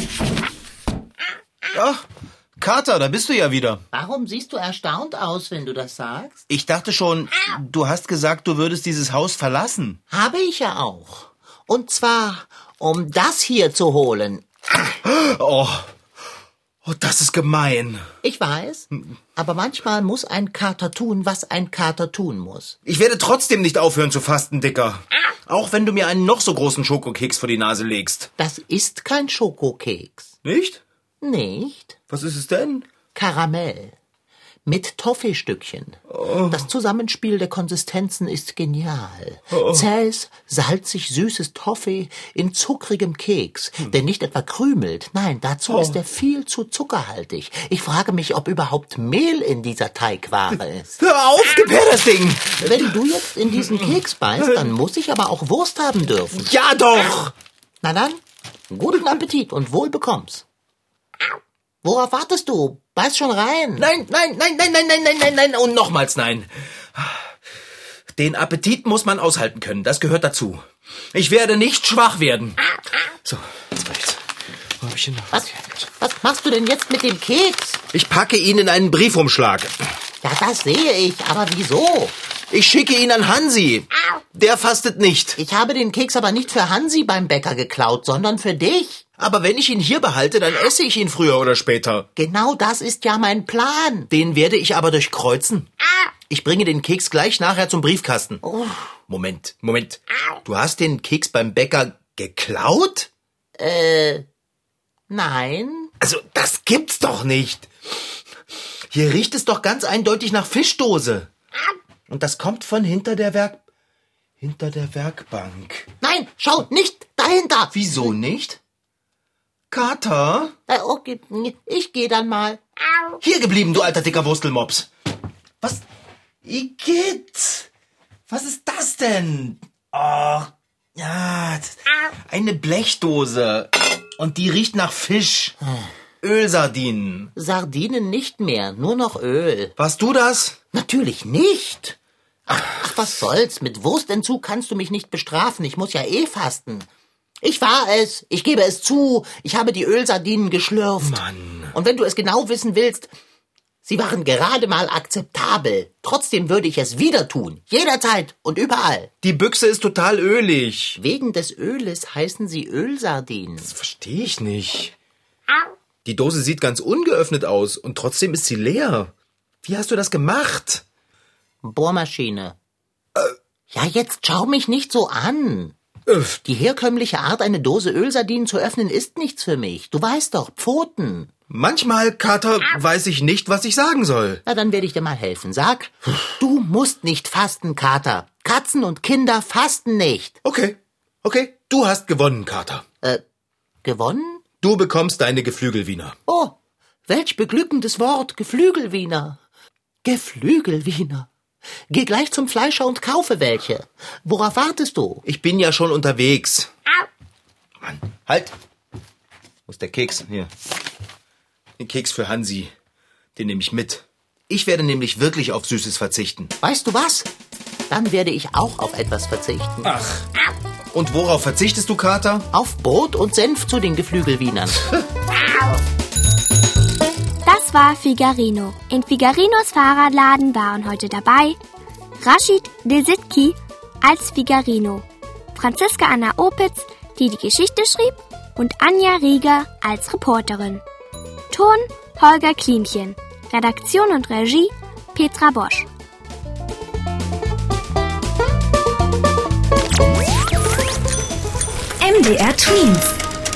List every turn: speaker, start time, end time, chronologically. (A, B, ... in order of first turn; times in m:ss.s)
0:01.7-0:02.0 A
0:02.6-0:03.8 A
0:03.9-0:06.4 B
0:06.5-0:10.0 A
0:10.1-0:14.9 B
0:15.0-0:15.9 A
0:16.8-0:18.0 A
0:18.2-0:22.8 B
0:22.8-0:28.3 A
0:28.4-0:30.3 B
0:30.4-0:30.8 A
0:31.2-0:32.0 B
0:32.1-0:32.8 A
0:33.1-0:33.9 B
0:34.6-0:51.0 B
0:36.1-0:36.6 A
0:39.5-0:39.9 A
0:45.7-0:46.0 A
0:51.0-0:53.0 A
0:52.5-0:56.5 B
0:53.6-0:53.9 A
0:56.3-0:57.3 A
0:57.8-1:00.4 B
1:01.8-1:03.9 B
1:03.8-1:07.3 A
1:08.2-1:12.6 A
1:13.2-1:14.2 A
1:14.8-1:15.8 A
1:15.3-1:17.8 B
1:17.9-1:19.9 A
1:20.2-1:22.1 B
1:22.5-1:25.4 A
1:25.4-1:29.0 B
1:29.2-1:32.1 A
1:32.2-1:34.1 B
1:34.1-1:35.7 A
1:36.3-1:38.4 A
1:38.4-1:38.9 B
1:39.1-1:43.1 A
1:43.6-1:44.2 B
1:45.1-1:45.9 B
1:46.0-1:48.0 A
1:48.9-1:51.3 A
1:52.1-1:53.6 A
1:54.4-1:55.9 A
1:56.0-1:57.7 B
1:57.7-1:58.6 A
1:59.7-2:00.5 A
2:00.7-2:02.6 B
2:03.2-2:04.9 A
2:06.4-2:07.7 A
2:08.3-2:15.6 A
2:16.2-2:17.3 A
2:17.4-2:19.7 B
2:19.8-2:20.6 A
2:20.7-2:26.9 B
2:27.4-2:31.2 B
2:31.0-2:31.7 A
2:31.7-2:33.1 B
2:33.8-2:39.1 B
2:39.2-2:41.0 A
2:41.0-2:43.7 B
2:43.6-2:44.9 A
2:46.0-2:49.1 A
2:49.6-2:50.8 A
2:51.6-2:52.6 B
2:53.7-2:55.8 B
2:56.1-2:56.4 A
2:56.4-3:01.3 B
3:01.5-3:04.4 A
3:04.4-3:10.4 B
3:10.4-3:12.8 A
3:13.8-3:14.4 B
3:14.6-3:16.2 A
3:16.3-3:19.4 B
3:20.0-3:21.3 B
3:21.9-3:25.2 B
3:25.2-3:26.7 A
3:27.8-3:28.5 A
3:29.7-3:30.5 A
3:31.8-3:32.7 A
3:33.4-3:36.5 A
3:36.6-3:37.3 B
3:37.9-3:39.9 B
3:39.8-3:40.2 A
3:40.9-3:42.5 A
3:42.5-3:44.8 B
3:47.4-3:51.6 C
3:52.2-4:00.8 C
4:01.5-4:05.9 C
4:12.0-4:13.1 C